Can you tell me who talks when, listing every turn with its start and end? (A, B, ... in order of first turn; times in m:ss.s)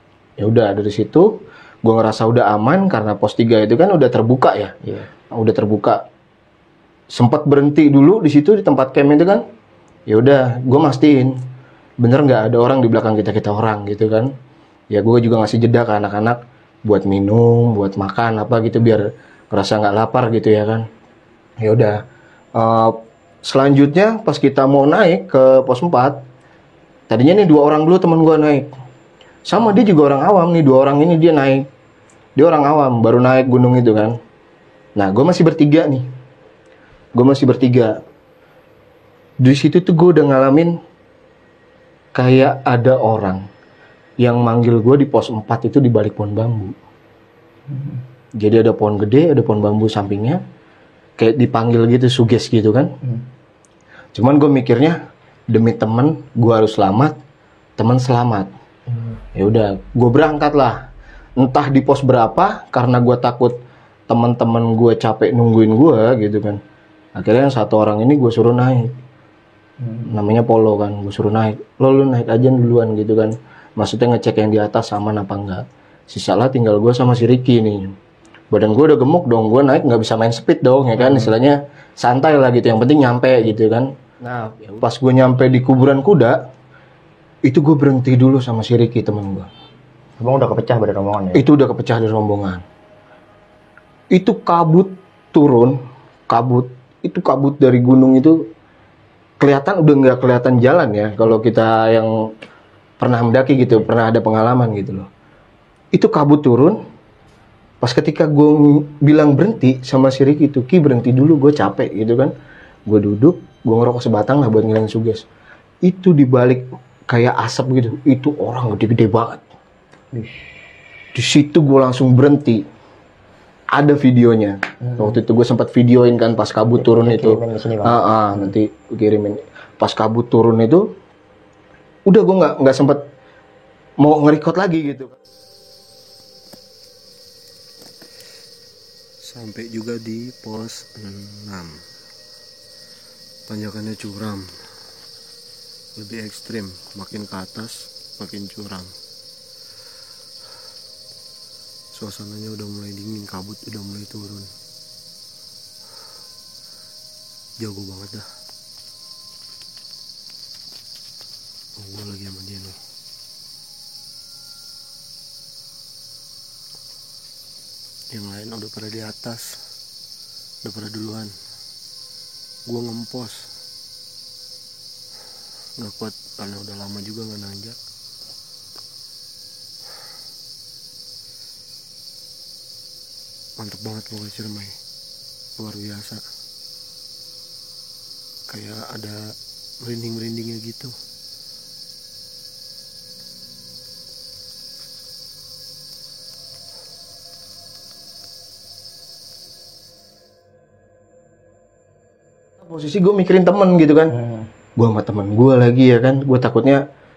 0:00.4-0:04.7 A
0:05.3-0:06.0 A
0:07.1-0:09.4 A
0:10.1-0:11.4 A
0:12.0-0:14.3 A
0:14.9-0:20.8 A
0:21.6-0:22.0 A
0:22.5-0:26.2 A
0:27.1-0:28.7 A
0:29.4-0:31.7 A
0:32.4-0:34.2 A
0:35.0-0:36.1 A
0:37.1-0:38.0 A
0:39.4-0:40.8 A
0:42.1-0:43.5 A
0:44.2-0:46.8 A
0:47.7-0:48.0 B
0:48.4-0:50.4 A
0:51.2-0:52.9 A
0:54.1-0:57.2 A
0:57.8-0:58.5 A
0:58.9-0:59.2 B
0:59.3-1:00.8 A
1:01.4-1:03.6 A
1:04.1-1:06.6 A
1:07.2-1:08.9 A
1:10.0-1:17.9 A
1:18.5-1:26.4 A
1:21.0-1:21.3 B
1:27.4-1:29.5 A
1:30.2-1:31.4 B
1:31.3-1:32.6 A
1:34.1-1:38.4 A
1:39.4-1:42.3 A
1:43.0-1:45.1 A
1:45.9-1:46.8 A
1:47.8-1:52.3 A
1:52.9-1:55.2 A
1:55.8-1:59.4 A
2:00.1-2:00.4 B
2:01.1-2:02.6 A
2:03.7-2:10.9 A
2:04.8-2:05.2 B
2:06.7-2:08.5 B
2:12.0-2:13.0 A
2:14.0-2:15.1 A
2:19.2-2:21.8 C
2:23.5-2:24.6 C
2:26.0-2:28.9 C
2:31.9-2:34.5 C
2:37.6-2:38.3 C
2:41.8-2:42.8 C
2:48.1-2:49.6 C
2:50.6-2:51.3 C
2:52.6-2:53.5 C
2:55.8-2:57.8 C
3:03.6-3:04.8 C
3:05.6-3:06.2 C
3:08.5-3:10.9 C
3:22.6-3:24.1 A
3:24.8-3:26.8 A